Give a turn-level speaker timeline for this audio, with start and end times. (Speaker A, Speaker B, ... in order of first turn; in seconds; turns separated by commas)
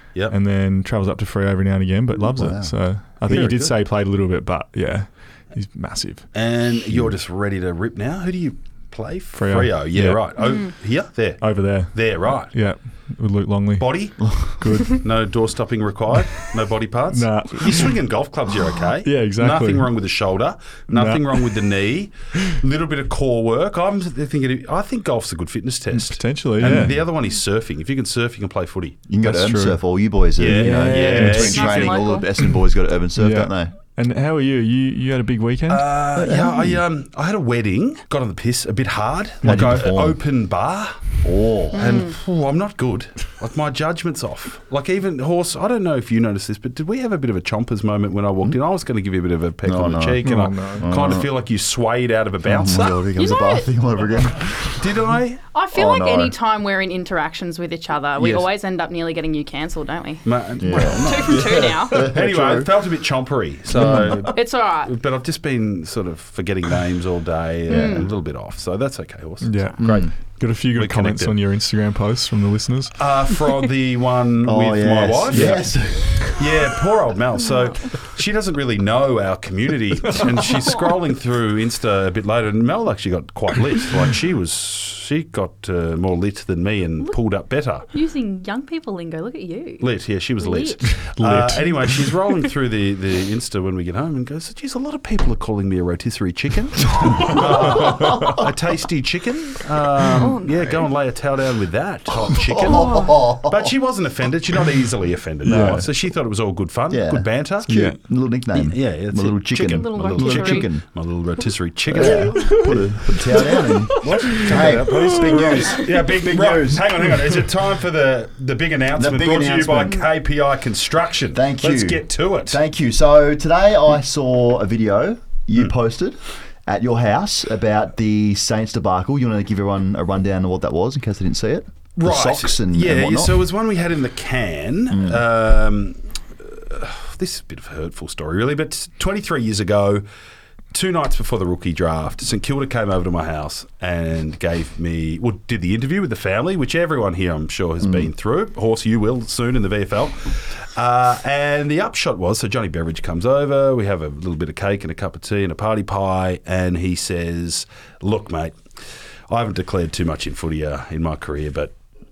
Speaker A: 0.3-6.3, Speaker B: 2.1-2.7, Speaker C: 3.3-3.7, Speaker C: 6.3-12.5, Speaker A: 9.3-10.3, Speaker D: 10.4-10.7, Speaker A: 11.4-15.1, Speaker C: 13.8-14.2, Speaker B: 14.2-14.5, Speaker C: 14.8-29.0, Speaker A: 17.1-18.0, Speaker A: 19.0-19.9, Speaker A: 20.9-21.6, Speaker A: 25.9-27.1, Speaker B: 29.1-33.7, Speaker A: 29.2-29.8, Speaker C: 30.4-31.9, Speaker A: 30.4-31.9, Speaker D: 31.1-32.3, Speaker A: 33.1-35.9, Speaker C: 35.7-41.0, Speaker B: 36.1-36.8, Speaker B: 39.4-40.2, Speaker B: 41.2-42.0, Speaker C: 41.7-53.0, Speaker D: 41.7-42.1, Speaker B: 49.6-50.2, Speaker A: 50.2-51.2, Speaker B: 50.8-51.3, Speaker B: 52.4-54.8, Speaker D: 53.1-53.7, Speaker C: 54.8-55.4, Speaker D: 55.5-62.1, Speaker B: 55.7-56.3, Speaker C: 58.2-58.5, Speaker C: 60.2-70.1, Speaker B: 60.6-62.7, Speaker B: 63.7-64.3, Speaker D: 64.2-64.9, Speaker D: 67.7-68.1, Speaker B: 67.7-68.0, Speaker A: 69.4-73.0, Speaker B: 69.8-70.1, Speaker C: 70.7-71.3, Speaker C: 73.0-75.6, Speaker B: 74.4-76.3, Speaker A: 75.3-75.6, Speaker C: 76.3-87.9, Speaker D: 87.9-89.9, Speaker C: 89.8-107.7, Speaker D: 90.4-90.9, Speaker A: 91.0-92.1, Speaker B: 97.2-98.4, Speaker D: 100.1-100.9, Speaker B: 102.2-103.7, Speaker D: 102.6-103.1, Speaker B: 105.5-105.8, Speaker A: 105.5-105.8, Speaker B: 106.9-110.8, Speaker A: 107.7-108.0, Speaker C: 108.5-112.8, Speaker D: 109.7-110.7, Speaker B: 111.9-117.1, Speaker A: 112.0-115.5, Speaker C: 114.0-122.6, Speaker B: 119.0-120.1, Speaker B: 121.3-133.4, Speaker C: 132.0-140.0, Speaker B: 134.9-135.2, Speaker C: 140.7-158.6, Speaker B: 147.8-148.1, Speaker C: 159.3-161.7